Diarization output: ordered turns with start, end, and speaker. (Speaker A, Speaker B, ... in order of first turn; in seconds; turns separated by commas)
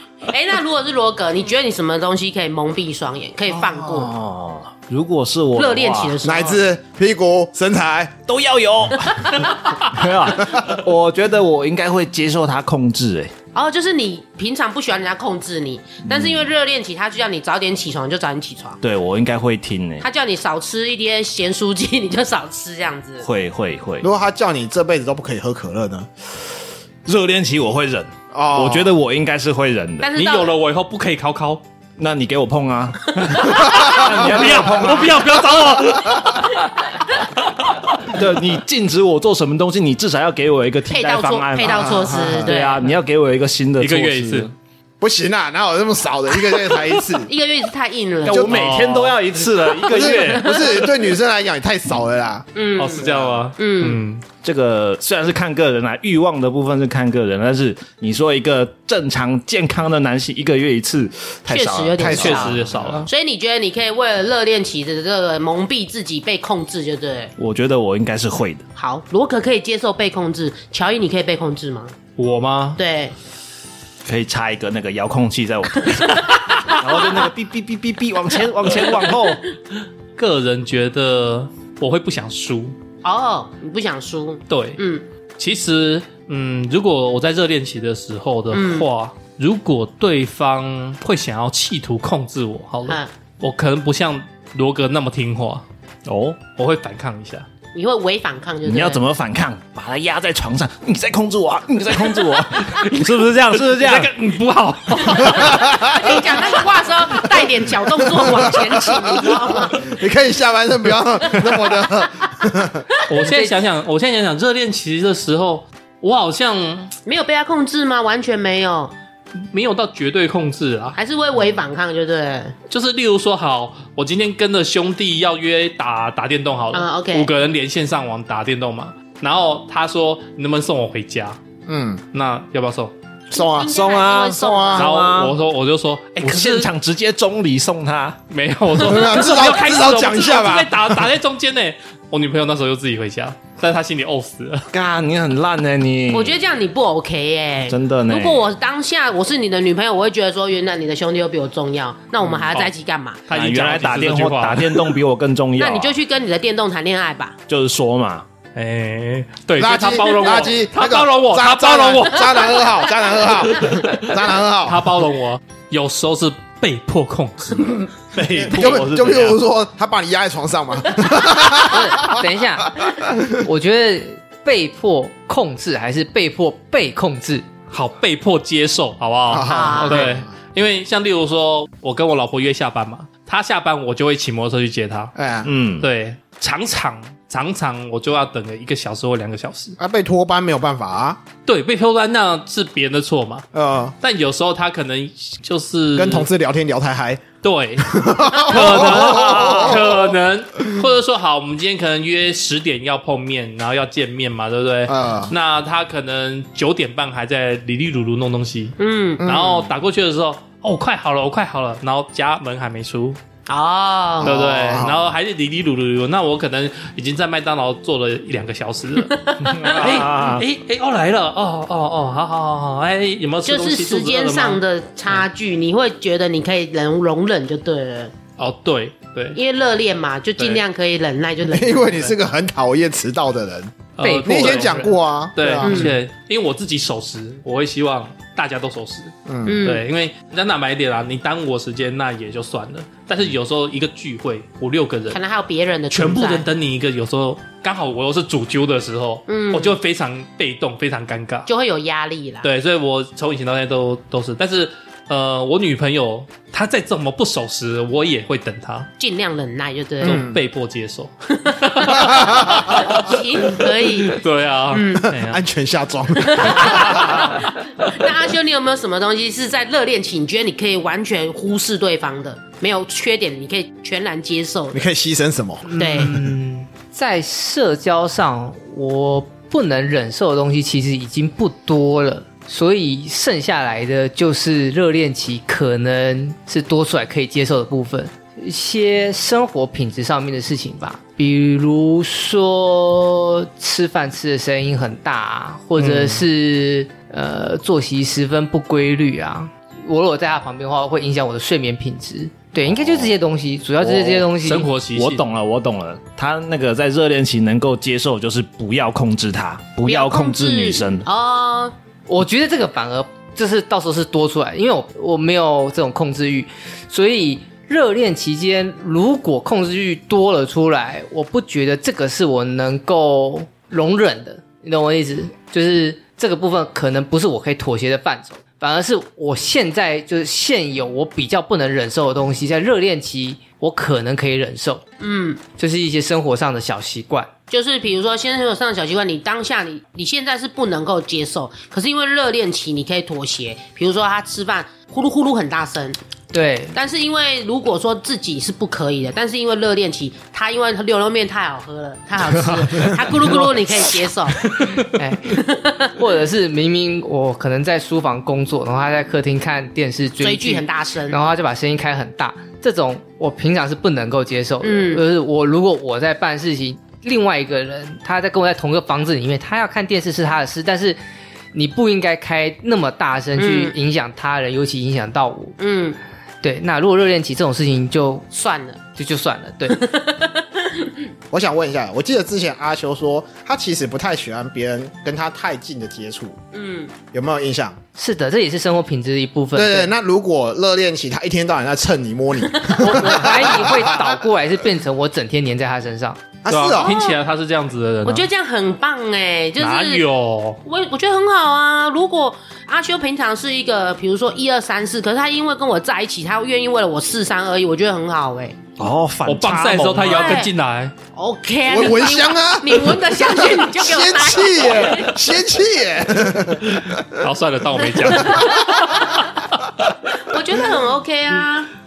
Speaker A: 0.3-4.1, Speaker B: 3.5-6.2, Speaker A: 5.5-6.6, Speaker C: 6.2-8.2, Speaker B: 8.2-13.3, Speaker A: 13.5-18.8, Speaker B: 16.1-16.4, Speaker B: 18.8-20.1, Speaker A: 20.0-23.2, Speaker B: 23.2-24.1, Speaker C: 24.0-26.1, Speaker B: 27.0-30.1, Speaker C: 28.3-28.9, Speaker A: 30.0-30.5, Speaker D: 30.1-31.6, Speaker B: 32.0-36.2, Speaker D: 33.4-36.6, Speaker C: 33.7-35.2, Speaker B: 38.0-44.5, Speaker A: 40.9-43.0, Speaker C: 41.6-42.5, Speaker D: 43.8-44.5, Speaker C: 45.0-47.3, Speaker A: 47.2-48.5, Speaker B: 48.3-50.5, Speaker D: 48.3-50.9, Speaker C: 48.3-48.6, Speaker C: 49.9-53.4, Speaker A: 49.9-50.9, Speaker A: 52.5-54.0, Speaker D: 52.8-54.2, Speaker B: 54.4-62.9, Speaker A: 61.5-62.5, Speaker C: 62.0-62.9, Speaker D: 62.1-63.1, Speaker A: 63.0-67.3, Speaker B: 67.4-68.6, Speaker A: 68.8-71.9, Speaker D: 72.2-72.8, Speaker A: 72.8-73.1, Speaker B: 74.0-79.4, Speaker D: 80.2-82.7, Speaker A: 83.0-85.0, Speaker D: 84.5-84.8, Speaker D: 85.4-95.6, Speaker A: 88.5-88.9, Speaker B: 96.0-96.4, Speaker D: 96.4-97.5, Speaker A: 97.7-99.0, Speaker B: 98.6-104.1, Speaker D: 103.5-106.6, Speaker A: 105.1-109.9, Speaker C: 105.2-106.1, Speaker C: 108.1-112.8, Speaker A: 111.3-111.7, Speaker D: 113.1-116.9, Speaker E: 113.3-113.5, Speaker A: 117.0-118.9, Speaker D: 119.5-121.0, Speaker A: 121.0-122.5, Speaker D: 122.7-131.4, Speaker A: 126.7-127.3, Speaker C: 131.7-132.0, Speaker D: 132.1-132.9, Speaker C: 133.3-133.8, Speaker A: 133.3-134.9, Speaker B: 133.7-135.4, Speaker C: 134.3-134.9, Speaker D: 134.8-136.7, Speaker B: 136.2-138.2, Speaker D: 138.3-144.7, Speaker C: 138.8-141.0, Speaker B: 144.7-146.4, Speaker A: 146.1-153.2, Speaker B: 147.7-148.4, Speaker D: 153.3-155.0, Speaker B: 153.3-155.9, Speaker A: 155.6-157.4, Speaker B: 157.5-158.2, Speaker D: 158.5-162.7, Speaker C: 159.6-164.9, Speaker D: 163.6-164.1, Speaker D: 164.6-167.8, Speaker B: 168.1-169.4, Speaker C: 168.4-172.2, Speaker E: 171.5-177.5, Speaker D: 177.7-185.1, Speaker C: 179.3-180.2, Speaker A: 179.4-180.1, Speaker C: 185.1-185.5, Speaker B: 185.4-185.9, Speaker D: 185.8-189.8, Speaker C: 189.8-191.2, Speaker D: 191.4-193.4, Speaker C: 193.5-193.9, Speaker D: 194.0-196.3, Speaker C: 195.9-197.2, Speaker D: 197.4-213.2, Speaker C: 197.8-200.0, Speaker B: 198.5-199.8, Speaker C: 204.9-205.3, Speaker A: 208.8-209.2, Speaker C: 209.2-209.7, Speaker A: 213.5-214.4, Speaker C: 214.2-215.1, Speaker D: 214.2-225.2, Speaker A: 219.1-220.0, Speaker B: 219.6-220.4, Speaker A: 223.4-228.1, Speaker D: 228.4-229.4, Speaker A: 229.3-232.1, Speaker D: 230.4-230.6, Speaker C: 231.5-235.9, Speaker D: 234.0-245.2, Speaker E: 234.0-234.9, Speaker A: 235.6-235.9, Speaker C: 239.2-239.6, Speaker A: 239.4-239.8, Speaker A: 245.1-246.5, Speaker D: 245.9-251.5, Speaker A: 249.3-249.8, Speaker A: 251.5-252.5, Speaker D: 252.4-258.9, Speaker A: 259.0-260.2, Speaker D: 260.0-265.4, Speaker C: 260.0-260.4, Speaker A: 261.4-265.1, Speaker C: 262.2-262.7, Speaker C: 265.1-267.3, Speaker A: 266.2-274.8, Speaker D: 266.6-267.2, Speaker C: 274.7-276.1, Speaker E: 275.6-304.7, Speaker A: 275.8-276.2, Speaker C: 295.8-296.2, Speaker B: 302.6-303.1, Speaker B: 303.8-304.4, Speaker D: 304.4-305.2, Speaker B: 304.9-311.1, Speaker A: 309.9-311.7, Speaker E: 312.1-334.8, Speaker A: 335.0-335.4, Speaker E: 335.5-337.3, Speaker A: 337.5-346.0, Speaker E: 346.3-346.8, Speaker A: 346.7-355.9, Speaker E: 354.9-371.0, Speaker A: 360.2-361.2, Speaker A: 364.6-365.0, Speaker E: 371.5-375.6, Speaker A: 373.4-373.7, Speaker A: 375.6-376.0, Speaker E: 376.4-378.2, Speaker A: 378.3-378.8, Speaker E: 378.9-379.9, Speaker A: 379.8-381.1, Speaker C: 381.3-386.4, Speaker A: 386.5-386.9, Speaker C: 387.1-387.8, Speaker E: 387.9-389.9, Speaker C: 389.5-394.2, Speaker A: 392.6-393.4, Speaker E: 392.8-396.2, Speaker C: 396.4-397.0, Speaker D: 396.5-398.3, Speaker A: 396.8-397.2, Speaker A: 398.1-400.0, Speaker D: 399.6-400.6, Speaker A: 400.6-408.6, Speaker B: 408.8-410.4, Speaker D: 409.2-410.9, Speaker A: 410.1-410.5, Speaker A: 411.1-415.2, Speaker C: 411.7-417.0, Speaker D: 416.6-418.7, Speaker A: 417.9-419.3, Speaker C: 418.2-418.8, Speaker A: 420.2-421.7